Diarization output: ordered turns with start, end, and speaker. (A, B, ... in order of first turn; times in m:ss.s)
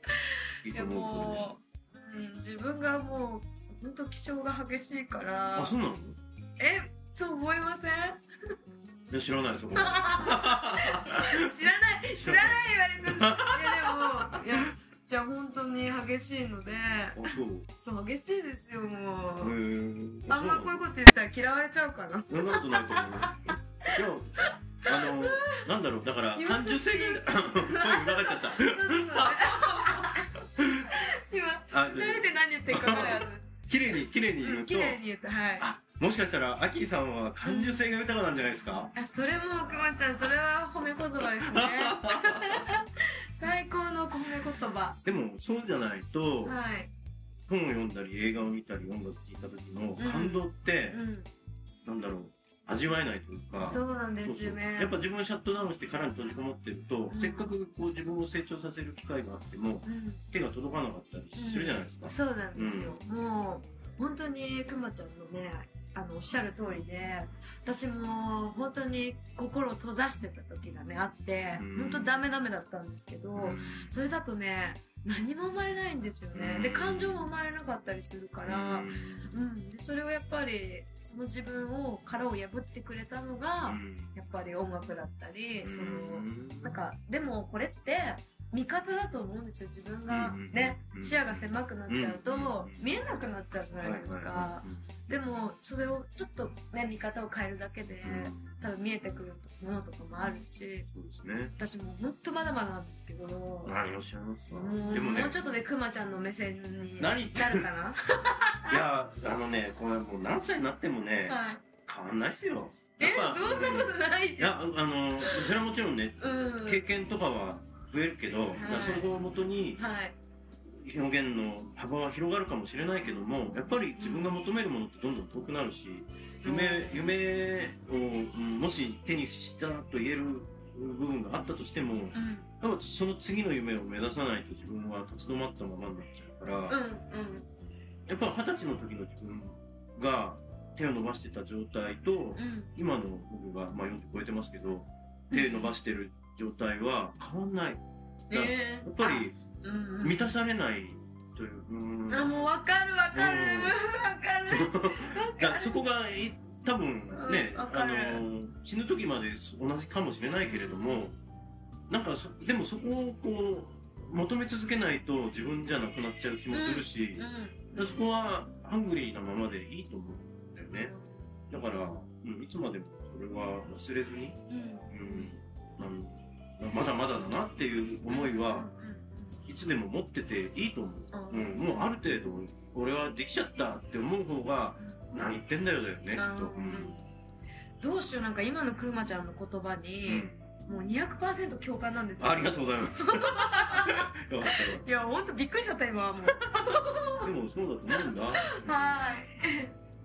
0:00.6-0:01.5 A
0:00.7-0:05.8 B
0:05.6-0:06.2 A
0:06.6-0:08.2 B
0:09.1-0:14.7 A
0:09.7-0:19.6 B
0:17.2-0:17.7 A
0:19.4-0:20.9 A
0:20.3-0:25.6 B
0:22.3-0:30.9 A
0:26.4-0:30.3 B
0:30.8-0:33.5 B
0:31.7-0:35.0 A
0:34.4-0:35.7 B
0:35.6-0:38.9 A
0:37.4-0:37.9 B
0:38.9-0:45.0 B
0:41.2-0:42.6 A
0:45.0-0:46.6 A
0:46.4-0:46.9 B
0:47.5-0:51.0 A
0:50.0-0:51.3 B
0:51.8-1:03.0 A
0:53.6-0:55.0 B
0:57.1-0:57.5 B
0:59.8-1:00.2 B
1:01.4-1:40.9 B
1:11.6-1:12.3 A
1:13.3-1:13.9 A
1:16.3-1:17.3 A
1:18.5-1:19.3 A
1:23.6-1:24.1 A
1:25.6-1:26.8 A
1:30.1-1:32.9 A
1:33.8-1:34.8 A
1:38.0-1:38.4 A
1:40.9-1:41.6 A
1:41.6-1:43.8 B
1:43.6-1:45.4 A
1:44.5-1:48.8 B
1:47.0-1:47.7 A
1:48.7-1:59.8 A
1:51.3-1:51.6 B
1:53.0-1:54.6 B
1:55.2-1:55.5 B
1:56.2-1:56.9 B
1:58.5-1:59.1 B
1:59.8-2:00.2 B
2:00.8-2:16.8 A
2:04.0-2:04.4 B
2:06.4-2:07.2 B
2:12.1-2:12.5 B
2:16.7-2:17.5 B
2:18.1-2:29.4 A
2:22.4-2:22.7 B
2:25.3-2:25.7 B
2:28.3-2:30.3 B
2:30.0-2:32.5 A
2:32.1-2:35.8 B
2:33.1-2:33.8 A
2:34.5-2:41.2 A
2:37.1-2:38.3 B
2:41.9-2:50.9 A
2:46.5-2:48.0 B
2:50.8-2:51.2 B
2:51.5-2:54.4 A
2:54.5-2:55.3 B
2:54.9-2:58.7 A
2:58.1-2:59.4 B
2:59.5-3:07.0 A
3:01.1-3:01.9 B
3:06.2-3:07.0 B
3:07.8-3:17.3 B
3:10.0-3:10.6 A
3:12.2-3:14.8 A
3:16.2-3:18.7 A
3:17.9-3:19.7 B